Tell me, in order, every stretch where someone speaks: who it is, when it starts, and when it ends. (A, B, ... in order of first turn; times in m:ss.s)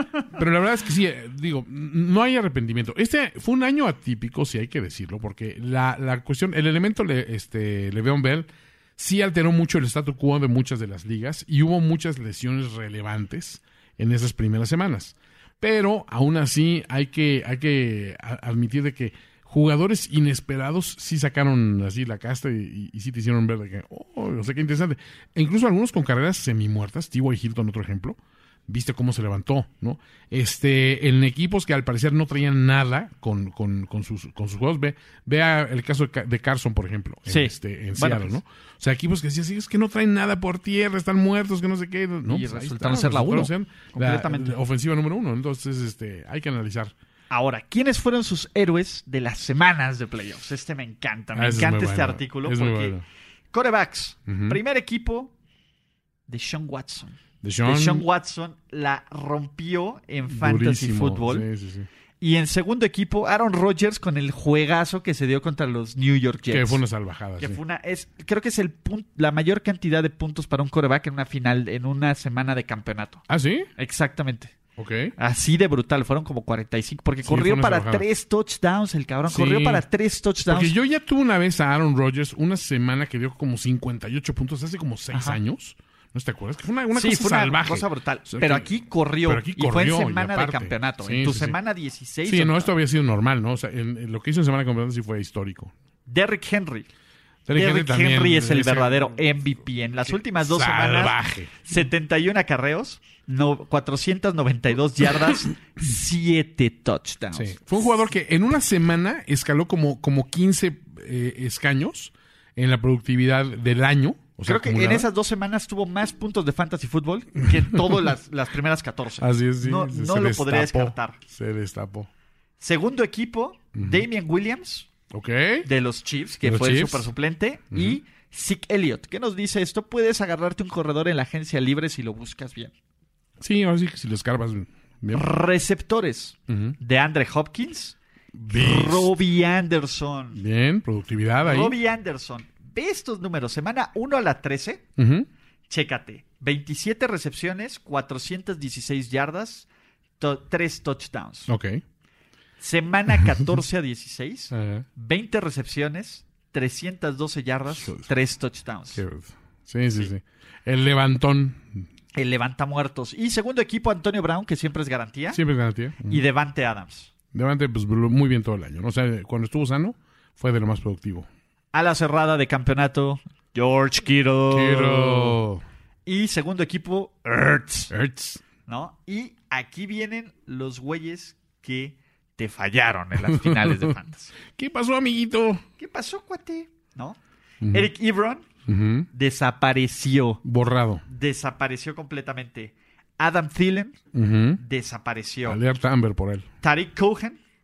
0:00.3-0:46.9 A
0:37.3-0:38.4 B
0:42.3-0:44.6 B
0:47.3-0:53.0 B
0:51.3-0:53.0 A
0:53.5-0:55.3 B
0:54.3-0:54.6 A
0:56.3-1:01.5 B
0:57.4-0:58.0 A
1:00.3-1:01.9 A
1:02.2-1:06.8 B
1:06.5-1:07.6 A
1:07.4-1:13.2 B
1:13.3-1:13.7 A
1:13.8-1:14.6 B
1:14.8-1:15.1 A
1:15.2-1:20.7 B
1:17.2-1:18.0 A
1:19.3-1:19.8 A
1:20.4-1:28.7 A
1:25.1-1:25.4 B
1:26.9-1:32.7 B
1:29.2-1:31.6 A
1:32.3-1:35.7 A
1:36.1-1:36.9 B
1:37.5-1:39.5 A
1:37.5-1:47.6 B
1:40.1-1:41.7 A
1:47.3-1:55.1 A
1:54.4-2:01.2 B
1:57.6-1:58.0 A
1:59.2-2:02.1 A
2:02.6-2:04.9 B
2:03.8-2:04.1 A
2:05.1-2:05.7 A
2:05.6-2:12.7 B
2:06.4-2:07.1 A
2:07.7-2:08.0 A
2:13.4-2:15.2 A
2:15.1-2:18.0 B
2:16.5-2:16.8 A
2:18.4-2:19.2 A
2:18.5-2:20.4 B
2:20.4-2:21.8 A
2:21.4-2:24.8 B
2:25.0-2:25.3 A
2:25.7-2:29.7 B
2:30.2-2:31.5 B
2:31.5-2:31.8 A
2:32.6-2:39.0 B
2:34.5-2:34.9 A
2:37.7-2:38.1 A
2:39.0-2:41.9 A
2:42.2-2:45.4 B
2:45.3-2:46.2 A
2:46.1-2:47.1 B
2:47.3-2:51.3 A
2:51.7-2:55.4 B
2:54.5-2:55.6 A
2:56.1-2:57.9 B
2:57.9-2:58.4 A
2:58.7-3:04.3 B
3:03.2-3:03.9 A
3:04.6-3:05.6 A
3:05.8-3:07.2 B
3:07.6-3:07.9 A
3:07.7-3:08.5 B
3:08.7-3:09.1 A
3:09.1-3:10.4 B
3:10.4-3:11.0 A
3:11.1-3:14.0 B
3:14.1-3:14.6 A
3:14.6-3:15.6 B
3:15.5-3:16.5 A
3:16.6-3:17.4 B